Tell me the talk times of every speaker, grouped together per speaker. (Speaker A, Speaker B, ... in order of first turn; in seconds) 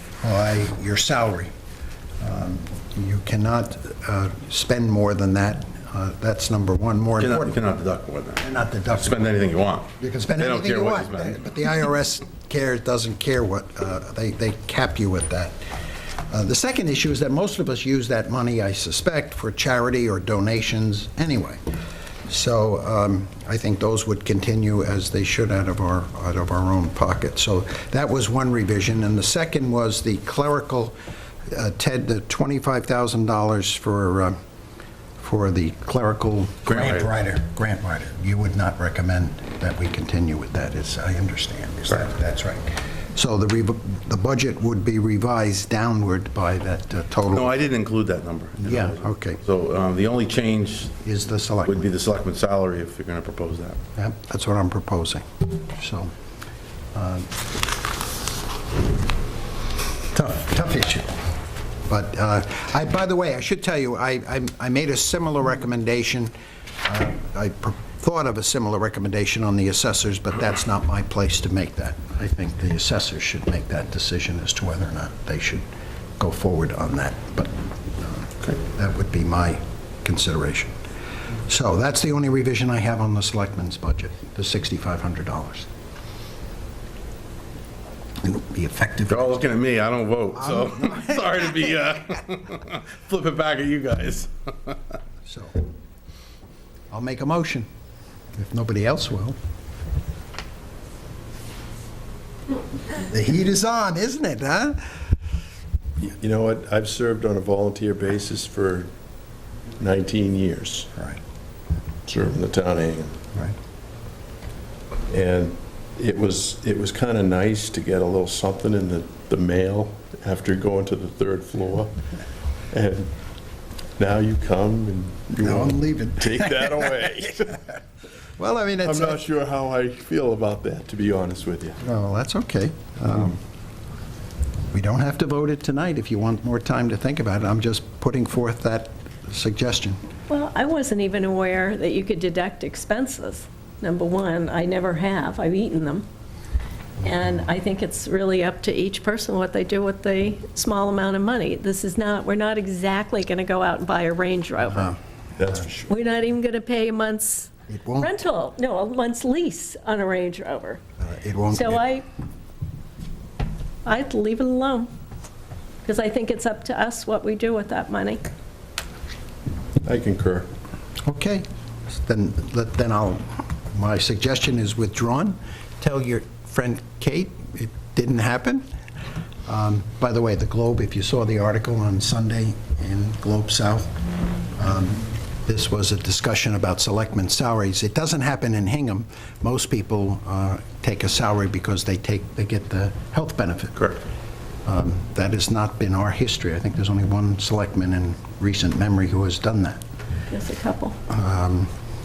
Speaker A: 0.2-1.5, 2.2-7.5, 8.4-9.4, 10.0-15.6, 16.3-21.6, 22.3-30.9, 31.5-34.4, 35.2-47.5, 48.6-49.4, 51.0-51.9, 54.0-56.1, 56.9-57.3, 60.1-61.1, 61.9-75.7, 76.2-80.8, 81.5-85.7, 88.2-89.4, 90.4-91.2, 95.2-95.6, 96.9-97.7, 98.3-99.4, 103.0-105.0, 125.4-127.0, 128.4-129.2, 131.8-133.4, 134.7-140.0, 157.7-158.1, 161.0-161.8, 171.1-178.7, 179.4-183.9, 184.6-193.9, 194.6-199.8, 201.1-201.7
Speaker B: 7.2-11.4, 36.6-37.1, 47.3-51.0, 51.6-53.8, 89.1-94.8
Speaker C: 106.0-108.9, 109.8-110.9, 112.0-113.2, 115.1-122.0, 122.7-123.1, 124.0-127.6, 128.8-131.8, 155.4-155.8, 169.8-170.5
Speaker D: 140.3-146.1, 147.0-154.9, 155.8-160.8, 161.5-162.0, 163.8-164.9, 165.8-168.2, 200.3-200.9